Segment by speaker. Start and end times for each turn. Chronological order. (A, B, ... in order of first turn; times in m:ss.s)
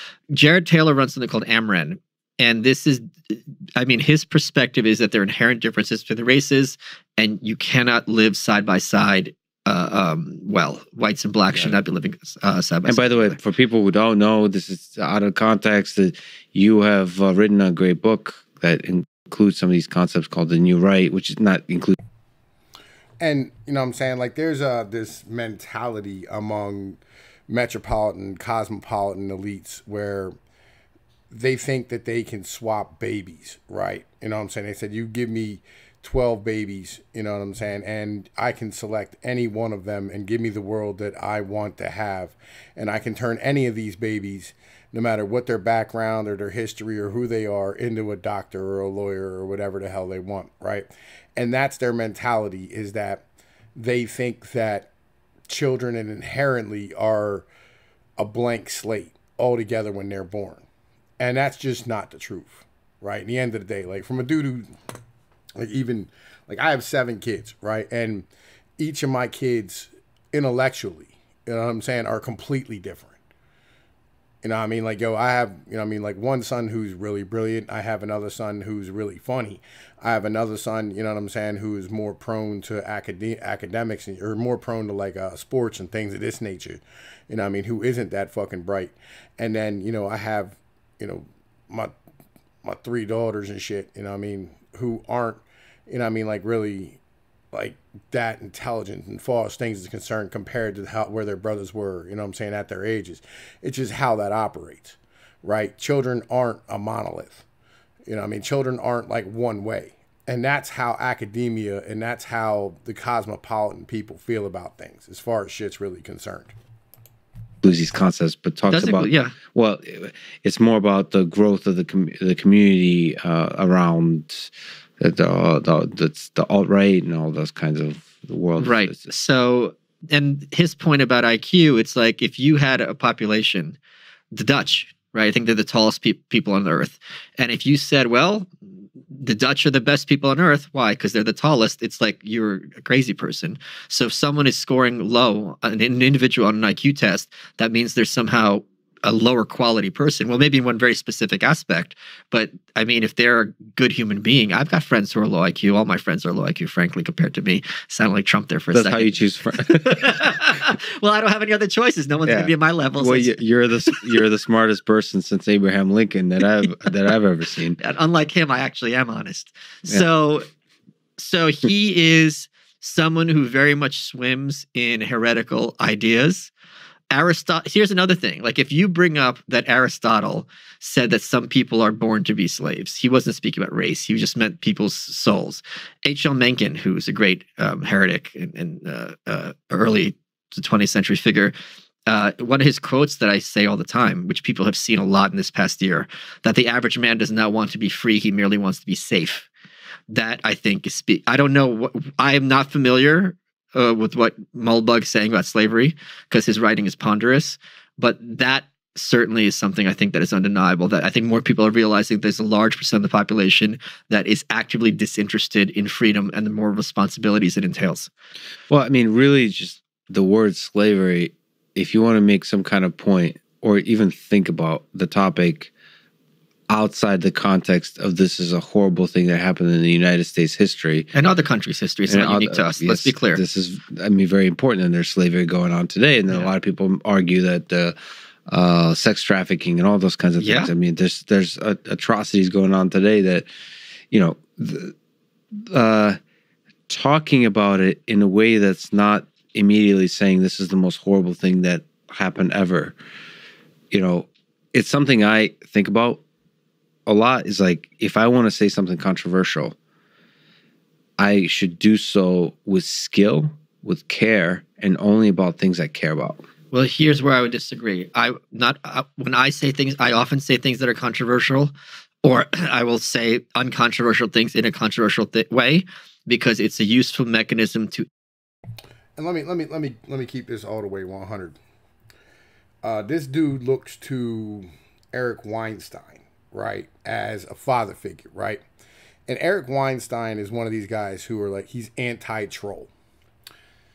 0:00.3-0:13.4 A
0:12.8-0:22.0 B
0:23.2-0:30.3 C
0:31.3-0:54.9 C
0:55.5-0:57.5 C
0:58.2-1:00.6 C
1:01.2-1:04.7 C
1:05.6-1:08.3 C
1:08.8-1:13.2 C
1:14.4-1:31.9 C
1:32.6-1:37.0 C
1:37.5-1:47.4 C
1:48.1-1:56.5 C
1:57.6-2:09.1 B
1:58.7-1:59.3 A
2:08.6-2:13.8 A
2:14.3-2:18.5 A
2:19.1-2:43.3 A
2:38.7-2:40.4 B
2:42.2-2:47.8 B
2:47.8-2:50.5 A
2:51.2-2:56.5 A
2:57.1-3:11.5 A
3:12.1-3:19.5 A
3:20.1-3:38.1 A
3:38.7-3:45.7 B
3:46.7-3:51.1 B
3:51.1-3:53.4 A
3:52.1-3:57.9 B
3:58.5-4:03.5 B
4:00.4-4:00.7 A
4:04.1-4:04.9 B
4:05.5-4:06.2 B
4:06.9-4:12.9 B
4:13.9-4:16.2 B
4:17.0-4:19.7 B
4:21.2-4:26.4 B
4:26.7-4:31.7 A
4:32.2-4:38.1 A
4:39.2-4:41.6 C
4:42.8-4:48.6 C
4:49.3-4:52.9 C